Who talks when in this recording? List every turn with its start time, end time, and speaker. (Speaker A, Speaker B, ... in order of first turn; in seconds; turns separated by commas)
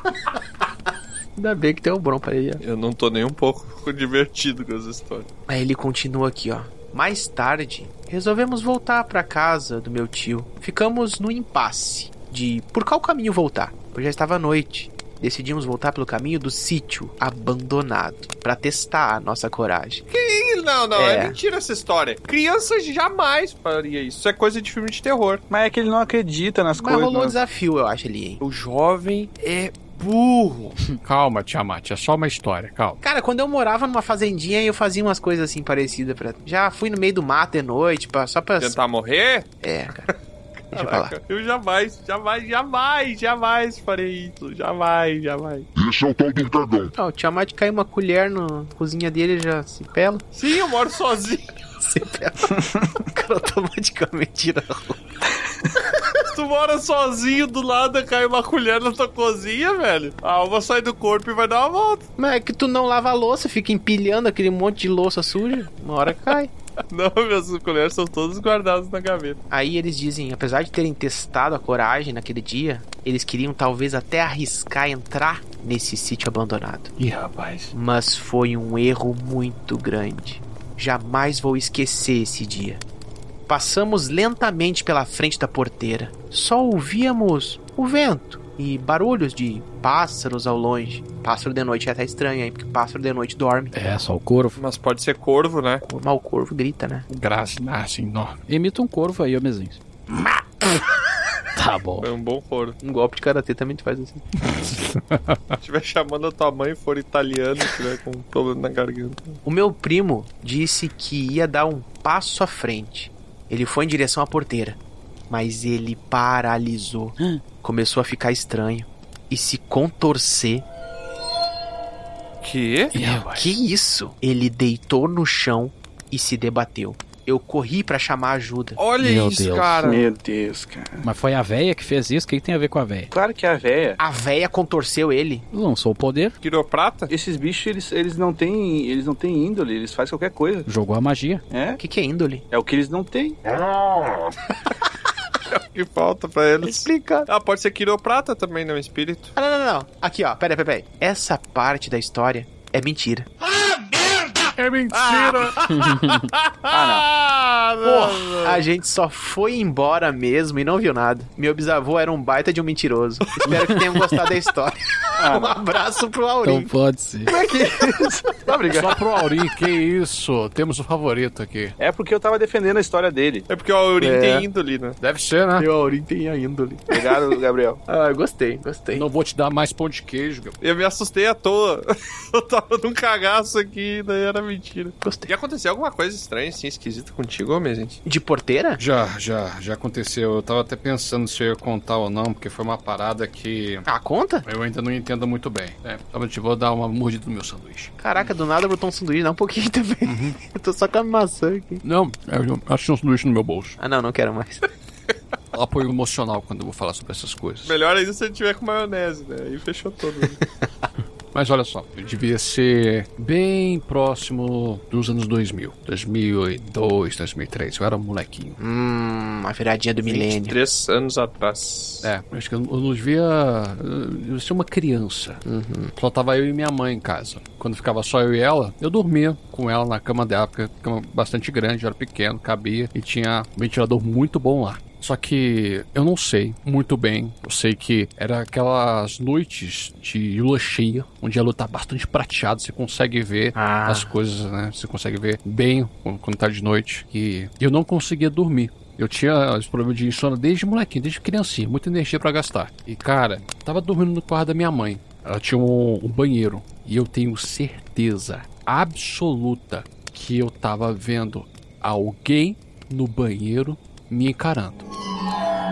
Speaker A: 1.4-2.6, Speaker B: 2.6-5.3, Speaker A: 5.5-20.0, Speaker B: 20.1-25.4, Speaker A: 20.9-21.4, Speaker C: 25.5-27.4, Speaker A: 26.8-28.4, Speaker B: 28.4-30.8, Speaker D: 31.0-33.0, Speaker A: 33.0-38.8, Speaker B: 38.6-40.2, Speaker A: 39.6-40.1, Speaker B: 40.7-45.7, Speaker A: 40.7-41.1, Speaker E: 45.8-46.9, Speaker A: 47.0-50.2, Speaker B: 50.4-51.5, Speaker A: 51.8-55.0, Speaker B: 56.2-62.1, Speaker A: 62.2-66.5, Speaker B: 66.9-69.4, Speaker A: 69.5-76.9, Speaker D: 77.0-77.7, Speaker A: 77.7-82.8, Speaker A: 83.5-93.7, Speaker F: 93.7-94.6, Speaker B: 94.6-95.8, Speaker A: 95.8-97.1, Speaker D: 97.1-98.4, Speaker F: 98.5-99.8, Speaker F: 101.6-102.1, Speaker B: 102.0-102.8, Speaker A: 102.8-104.2, Speaker D: 104.4-105.6, Speaker B: 105.6-109.4, Speaker A: 109.5-120.7, Speaker B: 122.4-123.0, Speaker F: 122.9-123.3, Speaker D: 122.9-123.5, Speaker A: 123.3-128.8, Speaker B: 128.8-130.1, Speaker F: 129.0-129.9, Speaker C: 129.8-131.1, Speaker F: 131.0-133.1, Speaker C: 133.1-134.0, Speaker A: 134.0-135.5, Speaker F: 135.5-136.3, Speaker B: 136.4-137.1, Speaker C: 137.1-140.7, Speaker F: 140.7-141.4, Speaker C: 141.5-141.8, Speaker A: 141.8-142.4, Speaker C: 142.5-143.4, Speaker E: 143.4-144.4, Speaker B: 145.5-149.3, Speaker A: 146.6-147.3, Speaker A: 149.4-153.3, Speaker D: 154.6-156.1, Speaker B: 155.0-155.5, Speaker F: 155.7-156.2, Speaker B: 156.1-158.6, Speaker C: 156.7-157.1, Speaker D: 157.8-158.4, Speaker A: 158.4-166.7, Speaker C: 165.2-165.6, Speaker F: 166.4-167.3, Speaker A: 167.3-169.0, Speaker C: 167.7-168.9, Speaker D: 168.7-171.8, Speaker C: 171.8-173.5, Speaker B: 173.5-175.0, Speaker A: 174.0-174.5, Speaker D: 175.0-175.7, Speaker A: 175.6-177.3, Speaker C: 176.9-177.8, Speaker A: 177.9-179.1, Speaker D: 178.9-180.6, Speaker B: 180.6-188.0, Speaker A: 185.0-185.3, Speaker A: 188.1-188.8, Speaker D: 188.8-193.9, Speaker A: 193.9-194.5, Speaker D: 194.4-198.3, Speaker A: 198.0-201.8, Speaker D: 200.1-200.4, Speaker D: 201.8-203.8, Speaker A: 203.8-204.7, Speaker D: 205.5-207.8, Speaker B: 207.7-210.4, Speaker D: 211.3-218.6, Speaker A: 218.6-220.6, Speaker B: 220.0-222.1, Speaker D: 222.0-225.4, Speaker A: 225.4-225.9, Speaker D: 226.0-264.9, Speaker A: 243.6-244.1